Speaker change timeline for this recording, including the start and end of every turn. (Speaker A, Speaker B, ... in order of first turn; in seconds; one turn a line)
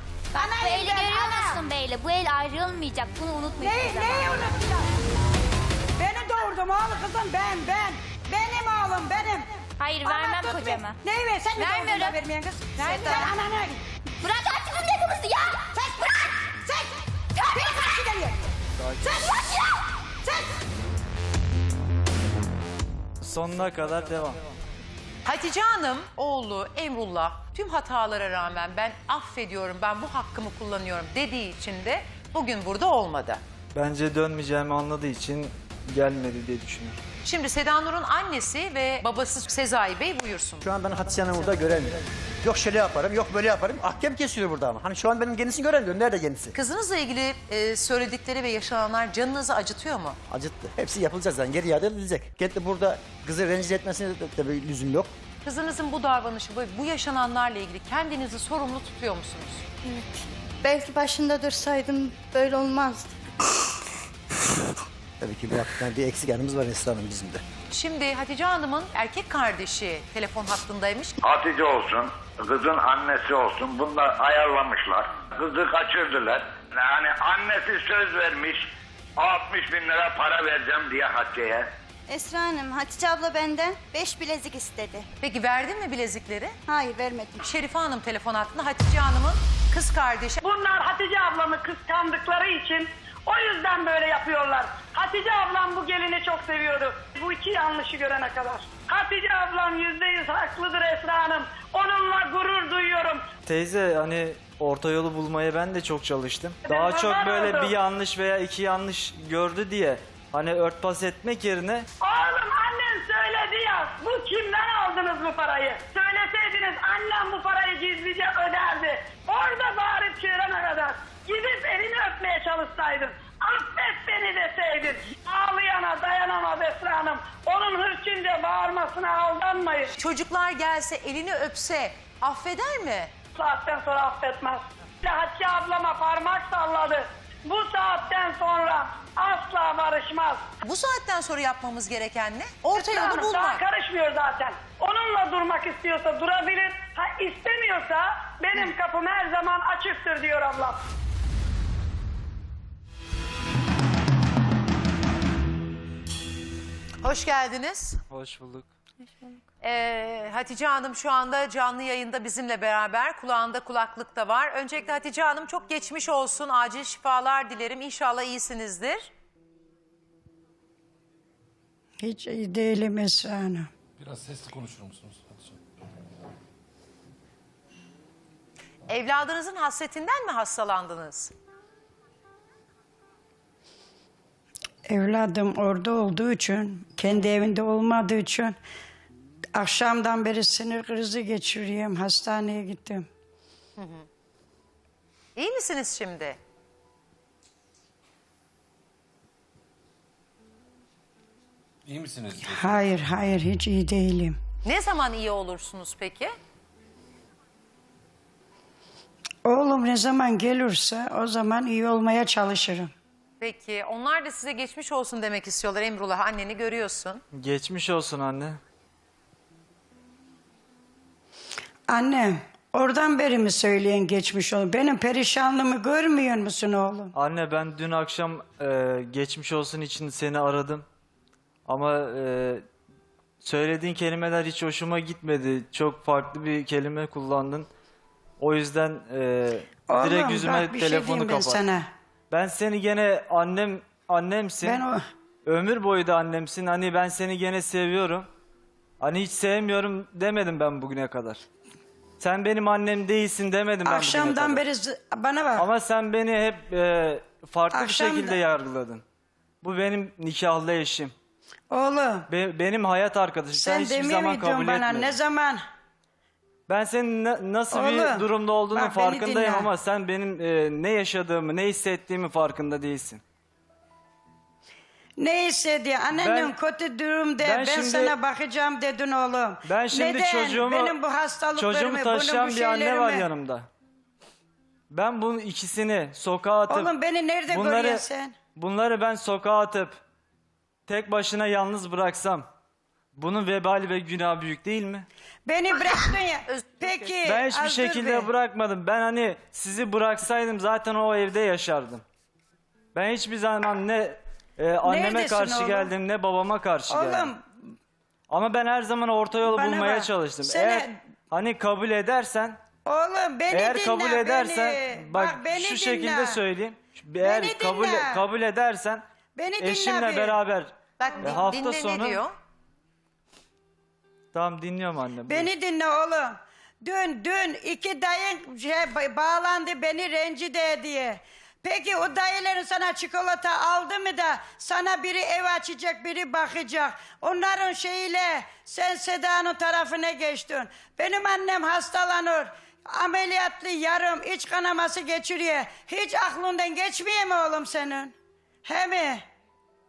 Speaker A: 0.3-1.6
Speaker B: 0.6-4.5
Speaker A: 3.6-4.9
Speaker A: 6.0-13.8
Speaker B: 9.8-11.0
Speaker B: 11.6-12.2
Speaker B: 12.8-13.3
Speaker B: 14.2-15.7
Speaker A: 15.7-18.4
Speaker A: 19.0-19.6
Speaker A: 20.2-20.6
Speaker C: 23.2-24.4
Speaker D: 25.2-33.4
Speaker C: 33.7-37.0
Speaker D: 37.2-40.7
Speaker E: 40.6-46.5
Speaker D: 46.5-50.2
Speaker E: 50.3-55.1
Speaker D: 55.4-59.6
Speaker F: 59.8-63.1
Speaker E: 65.2-67.4
Speaker D: 67.7-71.2
Speaker G: 71.2-78.6
Speaker G: 79.2-81.6
Speaker F: 82.1-85.1
Speaker D: 85.2-86.5
Speaker F: 86.7-87.5
Speaker D: 87.4-90.4
Speaker H: 90.4-103.3
Speaker C: 103.5-111.9
Speaker H: 106.7-107.8
Speaker H: 112.0-129.9
Speaker D: 130.0-133.1
Speaker H: 133.3-140.5
Speaker D: 140.6-143.6
Speaker H: 142.7-150.8
Speaker D: 157.0-158.0
Speaker C: 158.1-158.7
Speaker D: 159.6-169.1
Speaker A: 172.0-173.7
Speaker I: 174.0-175.6
Speaker D: 178.9-181.3
Speaker A: 184.9-188.6
Speaker A: 189.5-193.1
Speaker D: 193.8-194.1
Speaker D: 195.4-196.4
Speaker I: 201.9-202.8
Speaker A: 202.4-204.4
Speaker D: 204.6-206.3
Speaker A: 209.4-212.9
Speaker D: 213.4-217.2
Speaker C: 217.3-218.6
Speaker A: 221.9-227.1
Speaker C: 227.2-230.8
Speaker C: 231.7-232.6
Speaker C: 233.4-237.7
Speaker C: 238.4-241.6
Speaker A: 239.9-241.9
Speaker C: 242.3-244.8
Speaker A: 244.6-245.0
Speaker C: 245.5-248.3
Speaker C: 249.0-251.4
Speaker C: 252.2-254.6
Speaker A: 253.8-255.7
Speaker C: 255.6-259.0
Speaker A: 257.7-258.4
Speaker C: 259.6-261.1
Speaker A: 261.7-262.3
Speaker C: 262.3-265.2
Speaker A: 263.5-265.6
Speaker C: 266.7-273.2
Speaker A: 267.7-269.7
Speaker A: 275.2-283.3
Speaker C: 276.1-276.5
Speaker C: 277.4-278.1
Speaker C: 279.6-281.0
Speaker C: 281.6-283.7
Speaker C: 284.9-286.9
Speaker A: 286.7-288.4
Speaker C: 287.5-288.1
Speaker C: 288.6-290.0
Speaker C: 290.9-292.5
Speaker C: 293.2-295.1
Speaker A: 295.5-298.3
Speaker D: 296.5-297.2
Speaker C: 297.2-302.0
Speaker C: 302.9-307.3
Speaker A: 304.8-305.9
Speaker A: 306.9-307.4
Speaker C: 308.3-312.6
Speaker A: 309.5-310.9
Speaker A: 312.9-316.4
Speaker C: 313.5-319.0
Speaker A: 317.2-318.2
Speaker A: 319.4-320.4
Speaker C: 319.6-322.2
Speaker D: 321.0-322.3
Speaker A: 321.1-321.4
Speaker C: 324.3-325.5
Speaker A: 325.3-348.1
Speaker A: 348.6-349.3